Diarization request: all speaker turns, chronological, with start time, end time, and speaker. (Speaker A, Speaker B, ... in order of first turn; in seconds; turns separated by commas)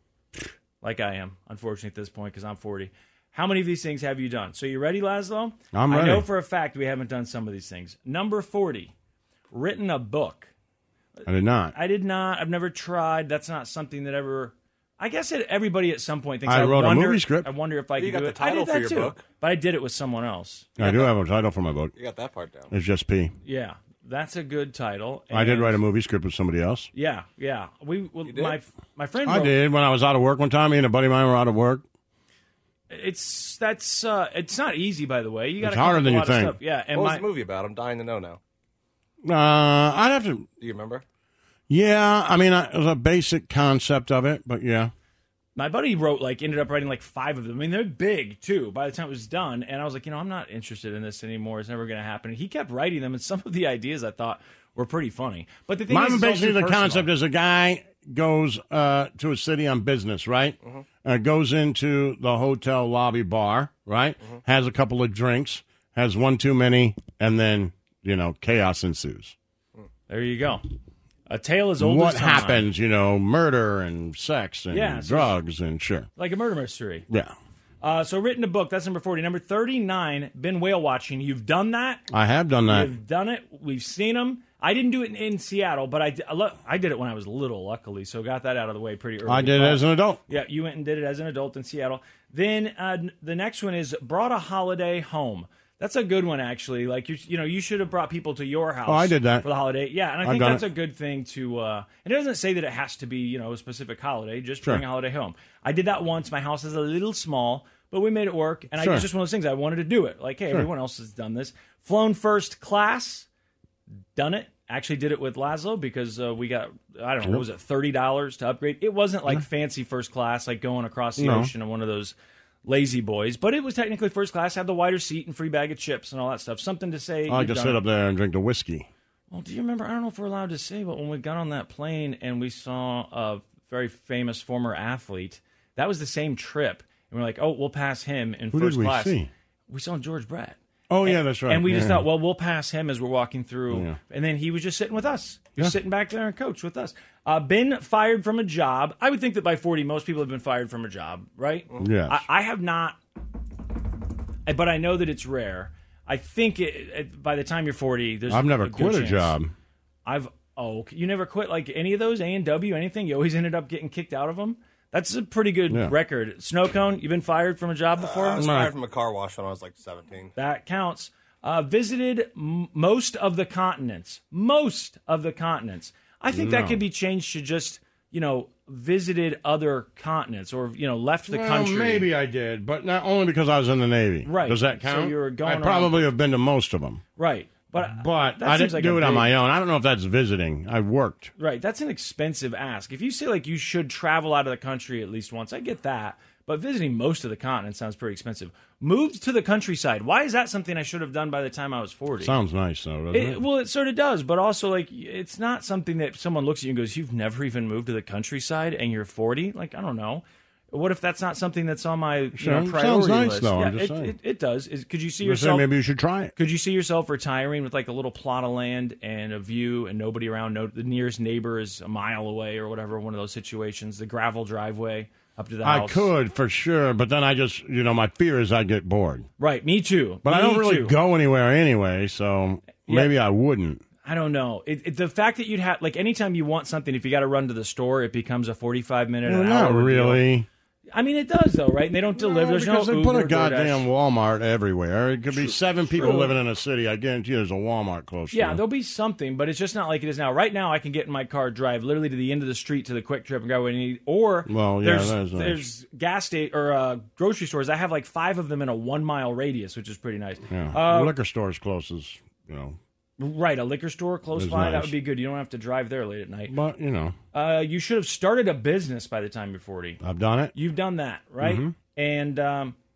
Speaker A: 0.8-8.9, Speaker B: 5.7-6.3, Speaker A: 9.5-10.5, Speaker B: 11.2-11.7, Speaker A: 11.7-20.9, Speaker B: 16.4-17.5, Speaker C: 18.0-19.2, Speaker B: 20.8-21.9, Speaker C: 20.8-21.1, Speaker C: 21.9-22.7, Speaker B: 22.7-23.3, Speaker A: 23.4-25.8, Speaker B: 25.3-26.9, Speaker A: 26.9-29.6, Speaker C: 28.2-28.6, Speaker B: 29.2-31.8, Speaker A: 32.9-37.2, Speaker B: 35.6-36.5, Speaker C: 36.9-38.4, Speaker B: 39.2-40.5, Speaker C: 40.6-41.0, Speaker B: 41.7-44.9, Speaker A: 45.5-57.1, Speaker B: 55.9-69.3, Speaker A: 70.1-70.6, Speaker A: 71.3-72.7, Speaker B: 71.8-76.1, Speaker A: 74.7-75.3, Speaker A: 76.2-77.1, Speaker B: 77.1-77.3, Speaker A: 77.8-82.0, Speaker B: 82.1-82.9, Speaker A: 82.6-113.3, Speaker B: 89.2-90.2, Speaker B: 98.8-99.5, Speaker B: 100.2-100.6, Speaker B: 108.7-109.1, Speaker A: 114.1-127.8, Speaker B: 121.2-121.5, Speaker B: 127.3-128.9, Speaker A: 129.3-153.0, Speaker B: 138.5-139.3, Speaker B: 140.9-142.1, Speaker B: 143.7-144.0, Speaker B: 151.8-152.2, Speaker A: 154.5-159.4, Speaker B: 158.3-159.5, Speaker A: 160.1-168.5, Speaker B: 165.7-165.9, Speaker C: 168.0-170.3, Speaker B: 168.4-168.7, Speaker A: 170.3-182.1, Speaker B: 176.3-176.8, Speaker B: 181.3-187.0, Speaker A: 184.2-186.1, Speaker A: 187.2-189.3, Speaker B: 187.8-191.3, Speaker A: 191.4-202.3, Speaker B: 202.2-203.4, Speaker A: 203.1-215.7, Speaker B: 212.3-214.1, Speaker B: 215.2-216.3, Speaker A: 216.3-226.1, Speaker B: 225.6-229.2, Speaker A: 229.4-230.9, Speaker B: 230.2-233.8, Speaker A: 232.8-233.1, Speaker A: 234.0-240.2, Speaker B: 239.2-240.4, Speaker A: 240.9-243.9, Speaker B: 242.1-248.6, Speaker A: 245.3-246.3, Speaker A: 248.3-261.1, Speaker B: 254.4-255.6, Speaker B: 260.5-262.8, Speaker A: 263.2-266.5, Speaker B: 264.3-264.9, Speaker B: 266.5-267.1, Speaker A: 267.3-270.0, Speaker B: 270.0-270.5, Speaker A: 270.5-272.7, Speaker B: 271.4-271.7